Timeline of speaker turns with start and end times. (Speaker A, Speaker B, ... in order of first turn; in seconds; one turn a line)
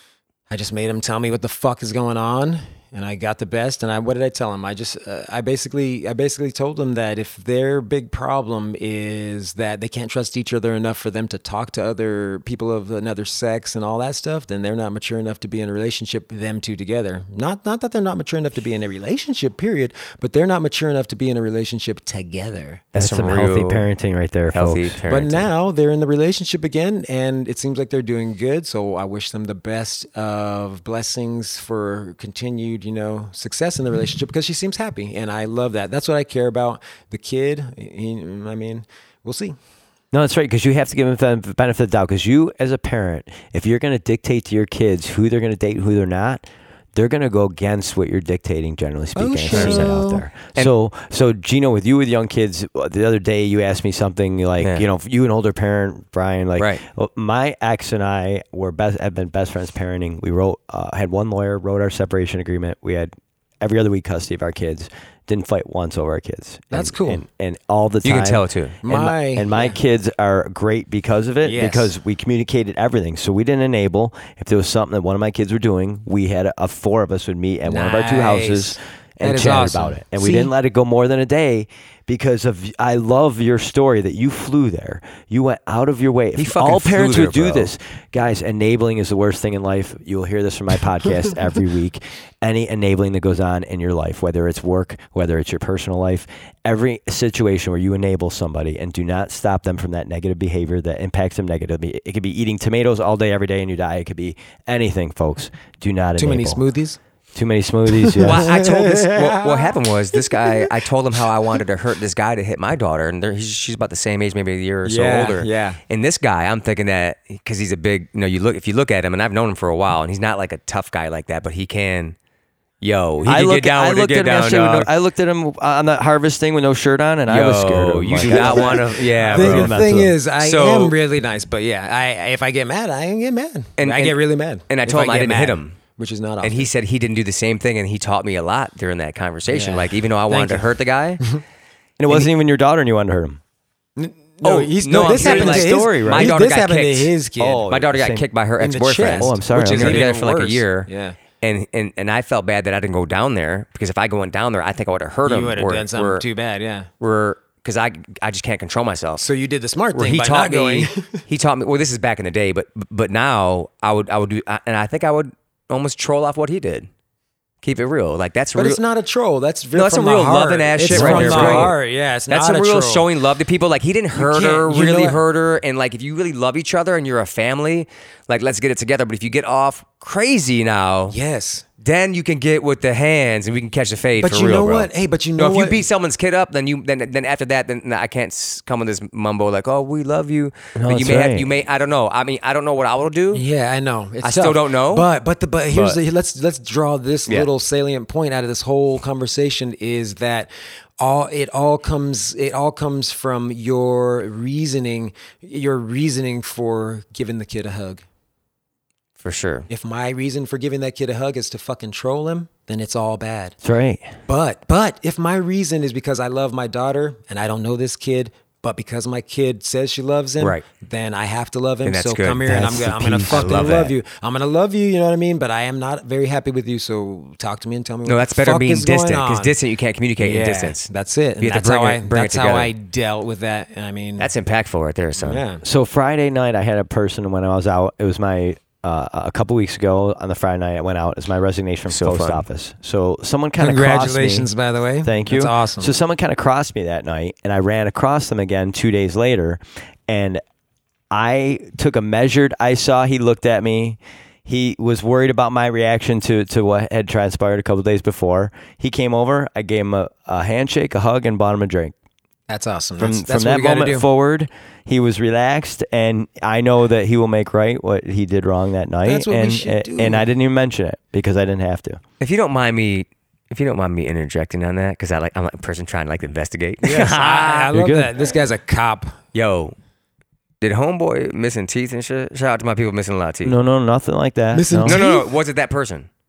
Speaker A: 0.5-22.9
Speaker B: 22.9-23.9
Speaker C: 22.9-25.0
Speaker B: 24.5-25.4
Speaker A: 25.1-39.5
Speaker C: 40.1-106.6
Speaker A: 49.1-50.2
Speaker B: 49.5-50.0
Speaker B: 56.6-56.8
Speaker A: 66.7-67.2
Speaker B: 68.0-68.8
Speaker A: 68.8-69.7
Speaker A: 71.4-71.9
Speaker A: 77.7-80.5
Speaker B: 86.4-87.7
Speaker A: 106.2-107.0
Speaker C: 107.3-108.5
Speaker A: 108.1-110.7
Speaker B: 108.2-122.2
Speaker A: 114.8-115.8
Speaker B: 122.8-124.9
Speaker C: 123.2-130.2
Speaker B: 127.3-129.8
Speaker A: 128.2-136.7
Speaker B: 130.4-130.9
Speaker B: 133.8-134.2
Speaker B: 134.7-135.8
Speaker B: 136.4-141.2
Speaker A: 139.5-141.4
Speaker C: 142.0-143.4
Speaker A: 144.0-147.7
Speaker B: 144.4-147.1
Speaker C: 145.0-146.4
Speaker C: 147.4-148.2
Speaker B: 147.7-150.9
Speaker A: 148.6-151.2
Speaker C: 149.1-150.1
Speaker B: 151.4-156.2
Speaker A: 155.2-156.9
Speaker B: 157.0-159.2
Speaker A: 159.2-161.2
Speaker B: 159.9-166.9
Speaker B: 167.6-168.8
Speaker A: 168.6-173.1
Speaker B: 169.7-171.8
Speaker C: 170.9-171.7
Speaker B: 172.3-181.2
Speaker A: 174.1-175.2
Speaker A: 181.1-181.7
Speaker B: 181.8-193.4
Speaker A: 184.2-185.8
Speaker C: 190.8-191.5
Speaker A: 193.3-208.0
Speaker B: 194.2-195.1
Speaker B: 195.7-196.0
Speaker B: 209.2-209.7
Speaker A: 209.7-213.6
Speaker C: 213.6-214.1
Speaker A: 214.3-229.5
Speaker B: 221.8-222.6
Speaker C: 222.4-223.6
Speaker B: 223.3-223.9
Speaker B: 228.0-230.8
Speaker A: 230.2-234.3
Speaker B: 231.4-232.7
Speaker B: 234.2-235.4
Speaker A: 235.2-235.6
Speaker C: 235.6-244.5
Speaker B: 241.9-242.4
Speaker A: 243.6-245.9
Speaker C: 245.0-250.4
Speaker C: 251.1-261.9
Speaker A: 262.5-264.1
Speaker C: 263.0-272.0
Speaker A: 269.0-270.2
Speaker B: 272.2-277.7
Speaker A: 276.8-279.2
Speaker C: 277.7-278.1
Speaker B: 279.3-279.7
Speaker B: 280.6-283.5
Speaker C: 283.4-285.0
Speaker A: 284.5-285.3
Speaker B: 284.8-286.1